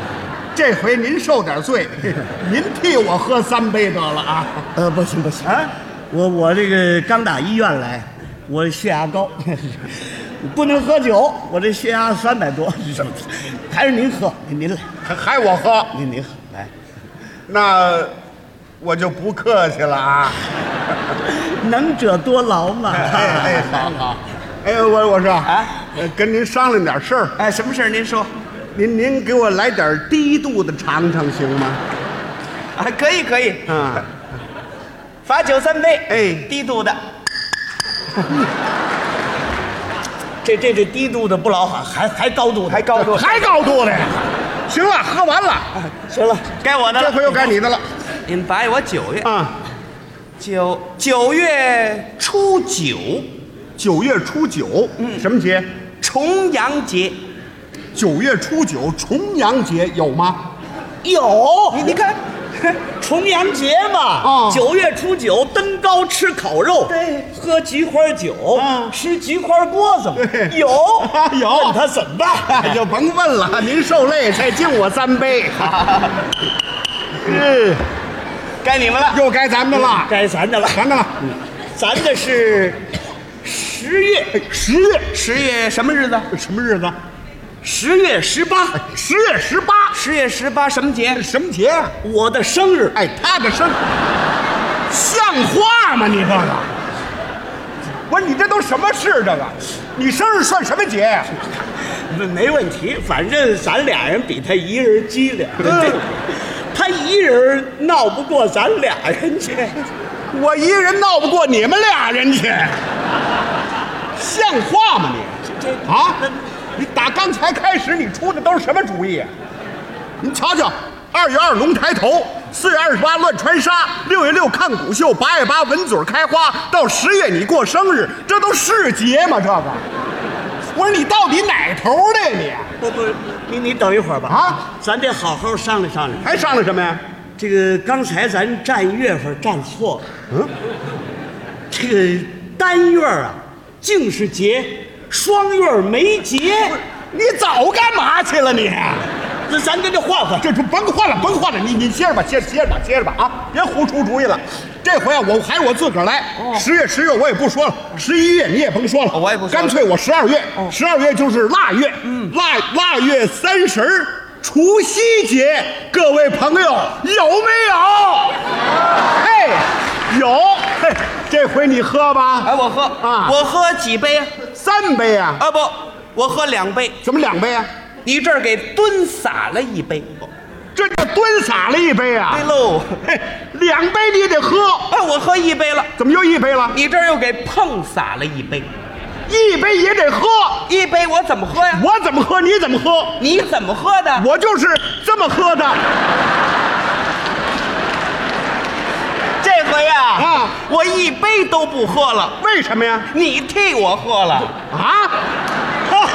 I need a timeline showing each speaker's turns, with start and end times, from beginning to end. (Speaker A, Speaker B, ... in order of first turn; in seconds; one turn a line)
Speaker A: 0.6-4.7
Speaker B: 4.8-9.8
Speaker B: 10.4-14.9
Speaker A: 15.0-16.0
Speaker B: 15.9-16.7
Speaker A: 17.5-18.1
Speaker A: 18.8-20.4
Speaker B: 21.2-23.9
Speaker A: 23.0-27.4
Speaker C: 25.4-25.8
Speaker C: 27.4-28.3
Speaker A: 28.8-31.8
Speaker C: 32.8-33.8
Speaker A: 33.7-34.1
Speaker C: 35.3-37.0
Speaker B: 40.4-42.9
Speaker C: 42.7-43.5
Speaker A: 43.0-45.7
Speaker B: 46.1-46.5
Speaker C: 46.6-47.5
Speaker A: 46.9-47.8
Speaker C: 48.3-49.3
Speaker A: 49.2-49.5
Speaker C: 50.4-53.3
Speaker A: 53.8-55.7
Speaker C: 55.0-55.2
Speaker C: 56.0-57.2
Speaker A: 58.0-60.4
Speaker B: 61.0-61.9
Speaker C: 61.7-62.8
Speaker B: 63.0-72.8
Speaker A: 64.2-64.7
Speaker C: 66.9-67.2
Speaker A: 68.5-68.9
Speaker A: 70.2-71.8
Speaker A: 72.5-75.8
Speaker C: 75.7-76.2
Speaker C: 78.6-79.2
Speaker A: 79.1-80.1
Speaker B: 79.7-80.8
Speaker A: 80.7-81.3
Speaker B: 81.7-82.8
Speaker B: 83.4-84.4
Speaker A: 84.3-85.1
Speaker C: 85.1-86.3
Speaker A: 86.3-87.0
Speaker B: 87.6-88.8
Speaker A: 88.7-90.0
Speaker C: 89.9-91.2
Speaker A: 91.2-92.0
Speaker B: 92.0-93.0
Speaker A: 93.0-93.8
Speaker A: 94.9-96.7
Speaker A: 98.1-101.3
Speaker B: 102.1-109.9
Speaker A: 105.6-106.0
Speaker A: 110.3-112.8
Speaker A: 114.2-116.2
Speaker A: 116.8-119.3
Speaker A: 120.2-129.8
Speaker A: 130.7-132.7
Speaker B: 132.8-136.3
Speaker A: 134.3-134.6
Speaker A: 136.2-137.0
Speaker B: 137.4-140.1
Speaker B: 141.7-146.8
Speaker A: 146.9-149.1
Speaker B: 149.5-150.5
Speaker A: 150.4-168.4
Speaker C: 156.4-156.7
Speaker C: 159.1-159.8
Speaker C: 162.0-162.3
Speaker A: 169.1-173.4
Speaker C: 172.4-174.3
Speaker A: 174.4-175.4
Speaker C: 175.4-177.0
Speaker A: 177.0-177.7
Speaker C: 178.1-180.2
Speaker A: 180.8-182.4
Speaker C: 182.3-183.0
Speaker A: 183.1-184.9
Speaker C: 184.9-185.9
Speaker A: 186.0-186.8
Speaker C: 186.7-188.7
Speaker A: 189.3-190.7
Speaker C: 190.7-191.8
Speaker A: 191.7-193.2
Speaker C: 193.2-194.3
Speaker A: 194.2-195.8
Speaker C: 199.4-202.4
Speaker A: 200.2-200.6
Speaker A: 202.4-203.1
Speaker C: 203.1-204.6
Speaker A: 204.7-205.1